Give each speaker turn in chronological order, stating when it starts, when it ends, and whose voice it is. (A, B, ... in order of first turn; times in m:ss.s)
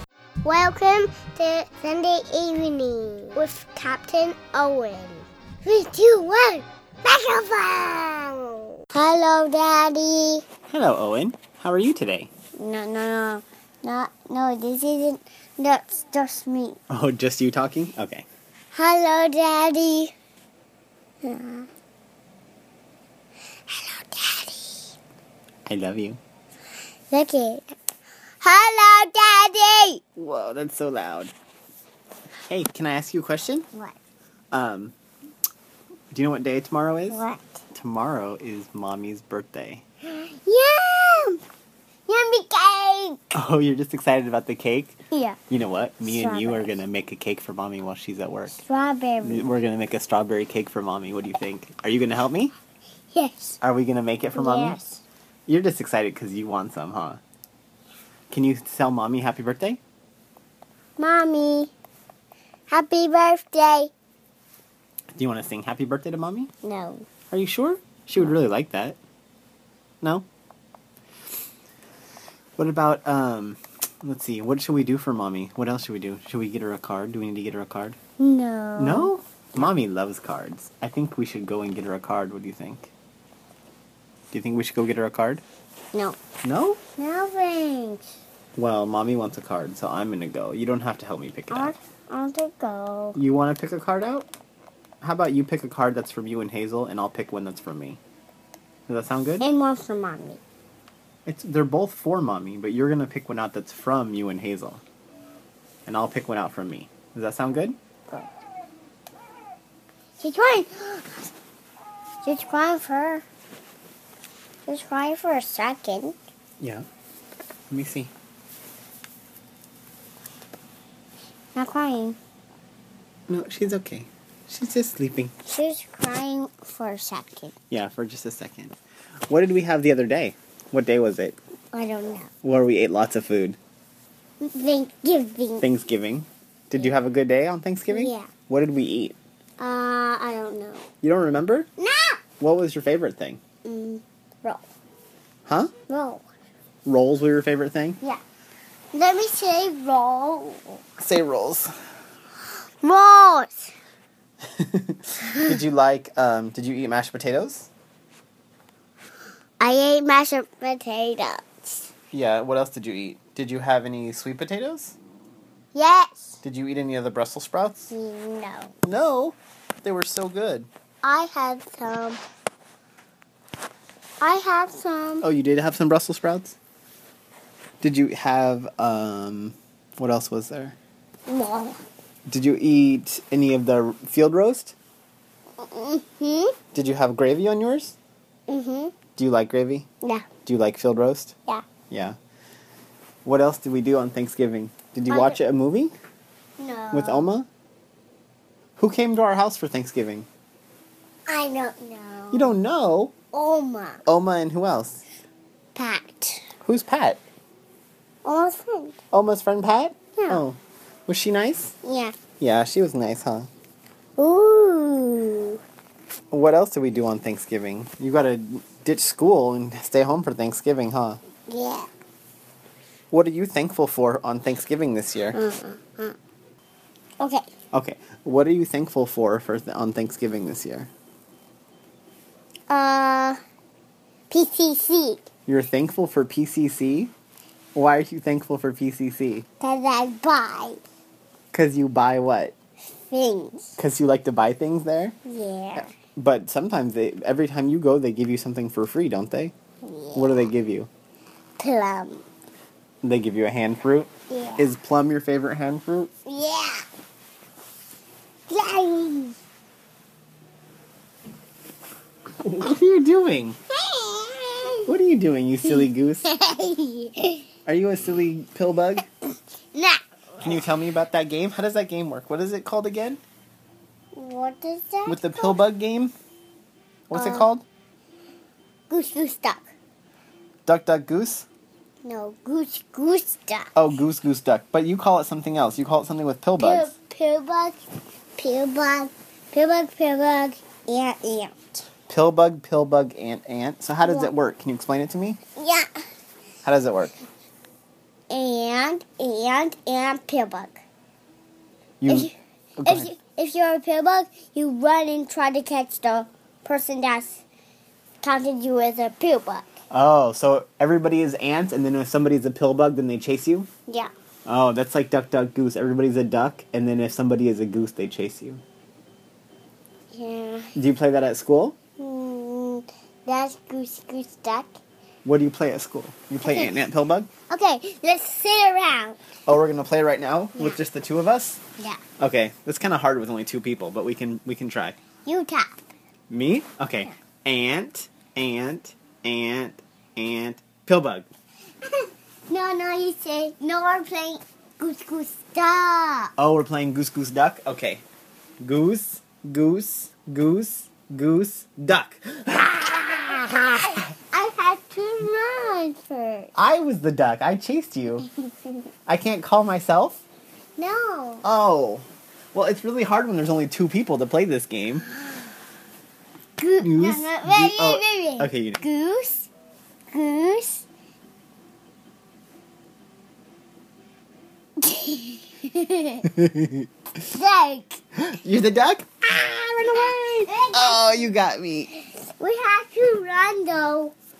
0:00.4-0:10.4 A
0:10.7-0:12.3 B
0:12.6-0:16.8 A
0:16.9-0:18.2 B
0:18.7-0:20.1 A
0:21.2-0:21.7 A
0:23.7-0:24.9 A
0:25.7-0:26.2 B
0:27.1-0:27.7 A
0:28.4-0:30.0 A
0:30.2-0:31.3 B
0:32.5-0:33.6 B
0:34.5-0:34.9 B
0:36.1-0:37.2 B
0:37.1-0:37.6 A
0:37.7-0:39.8 B
0:40.0-0:41.4 A
0:42.1-0:43.3 A
0:43.3-0:45.0 B
0:45.1-0:45.4 A
0:45.5-0:48.6 B
0:46.0-0:46.8 A
0:48.6-0:49.5 A
0:49.2-0:52.5 B
0:53.1-0:53.6 A
0:53.6-0:54.8 B
0:54.3-0:55.0 A
0:55.5-0:57.2 B
0:58.3-0:59.8 B
1:01.0-1:01.7 A
1:02.7-1:03.9 A
1:05.1-1:06.5 B
1:06.6-1:07.0 A
1:07.3-1:09.0 B
1:12.6-1:18.0 B
1:18.2-1:19.1 A
1:18.8-1:22.9 B
1:24.3-1:25.4 B
1:26.4-1:26.8 B
1:27.0-1:28.1 A
1:28.6-1:31.7 B
1:31.5-1:33.2 A
1:33.1-1:34.3 B
1:35.0-1:38.0 B
1:38.9-1:39.5 B
1:39.4-1:40.4 A
1:41.2-1:44.8 B
1:45.8-1:47.8 B
1:50.2-1:51.3 A
1:52.2-1:53.2 A
1:54.7-1:56.2 A
1:56.6-1:56.8 B
1:57.7-1:58.1 B
2:01.5-2:02.2 A
2:03.3-2:05.3 B
2:05.4-2:07.5 A
2:07.7-2:08.7 B
2:09.3-2:11.4 B
2:11.7-2:12.3 A
2:12.4-2:13.6 B
2:14.4-2:15.6 A
2:15.6-2:19.2 B
2:17.9-2:18.3 A
2:19.6-2:20.9 A
2:21.0-2:21.7 B
2:21.8-2:22.2 A
2:22.4-2:23.4 B
2:23.6-2:24.6 A
2:25.5-2:25.7 B
2:25.9-2:26.2 A
2:26.8-2:28.0 B
2:28.9-2:30.8 A
2:31.0-2:31.7 B
2:32.8-2:33.7 A
2:34.5-2:37.7 B
2:39.6-2:41.9 A
2:42.1-2:45.0 B
2:45.7-2:46.4 A
2:46.4-2:47.9 B
2:47.9-2:48.7 A
2:48.8-2:50.7 B
2:51.0-2:52.2 A
2:54.2-2:55.2 A
2:55.2-2:56.6 B
2:57.8-3:00.8 B
3:01.3-3:01.8 A
3:02.3-3:04.7 B
3:05.6-3:06.6 A
3:06.7-3:08.0 B
3:08.5-3:08.9 A
3:09.2-3:09.9 B
3:10.0-3:10.3 A
3:10.4-3:11.4 B
3:11.9-3:12.2 B
3:13.2-3:15.9 B
3:15.1-3:15.4 A
3:16.6-3:17.3 A
3:16.9-3:17.5 B
3:18.8-3:20.3 B
3:21.3-3:22.5 A
3:22.3-3:23.1 B
3:23.3-3:24.0 A
3:24.0-3:25.0 B
3:25.7-3:26.5 A
3:26.6-3:27.2 B
3:28.2-3:29.0 A
3:29.1-3:31.7 B
3:30.2-3:30.4 A
3:31.8-3:32.1 A
3:32.4-3:33.5 B
3:34.2-3:35.6 A
3:36.3-3:41.2 B
3:41.5-3:41.9 A
3:43.1-3:45.4 B
3:45.3-3:46.2 A
3:47.2-3:47.4 A
3:47.7-3:50.9 B
3:52.7-3:53.4 A
3:54.3-3:55.3 A
3:55.4-3:57.1 B
3:57.7-3:59.4 B
3:59.6-4:00.8 A
4:01.5-4:02.5 B
4:03.1-4:03.8 A
4:03.8-4:05.2 B
4:05.2-4:05.9 A
4:05.8-4:09.5 B
4:09.8-4:10.5 A
4:10.1-4:10.9 B
4:11.6-4:12.2 A
4:13.0-4:16.1 B
4:14.3-4:14.7 A
4:16.2-4:16.8 A
4:18.5-4:19.4 A
4:22.4-4:23.6 B
4:23.7-4:24.9 A
4:24.8-4:26.3 B
4:25.6-4:27.5 A
4:27.6-4:29.0 B
4:29.7-4:30.5 A
4:30.4-4:33.2 B
4:34.1-4:35.6 A
4:35.0-4:36.1 B
4:37.1-4:37.6 B
4:37.1-4:37.5 A
4:38.9-4:39.6 A
4:40.6-4:41.4 B
4:42.0-4:43.7 A
4:43.7-4:46.9 B
4:46.6-4:47.8 A
4:48.4-4:51.8 A
4:52.1-4:55.4 B
4:54.0-4:54.3 A
4:55.6-4:55.9 A
4:56.6-4:57.2 B
4:58.3-5:00.8 A
5:02.0-5:03.1 B
5:02.1-5:02.3 A
5:02.8-5:07.4 A
5:08.2-5:09.7 A
5:09.9-5:13.7 B
5:14.4-5:18.6 B
5:20.1-5:20.7 A
5:20.7-5:21.8 B
5:22.0-5:24.8 A
5:25.2-5:27.3 B
5:26.4-5:26.7 A
5:27.5-5:29.2 A
5:29.5-5:31.6 B
5:32.2-5:35.0 B
5:35.2-5:35.8 A
5:36.3-5:41.3 B
5:41.8-5:46.3 A
5:46.4-5:48.0 B
5:48.6-5:53.4 B
5:53.2-5:56.5 A
5:56.5-5:58.2 B
5:58.4-5:58.8 A
5:59.1-6:00.2 B
6:00.8-6:01.4 A
6:01.4-6:05.0 B
6:06.6-6:09.5 A
6:06.8-6:08.8 B
6:10.1-6:10.8 A
6:14.8-6:16.3 A
6:16.3-6:16.9 B
6:17.3-6:18.0 A
6:18.1-6:21.9 B
6:19.8-6:21.3 A
6:22.2-6:24.1 A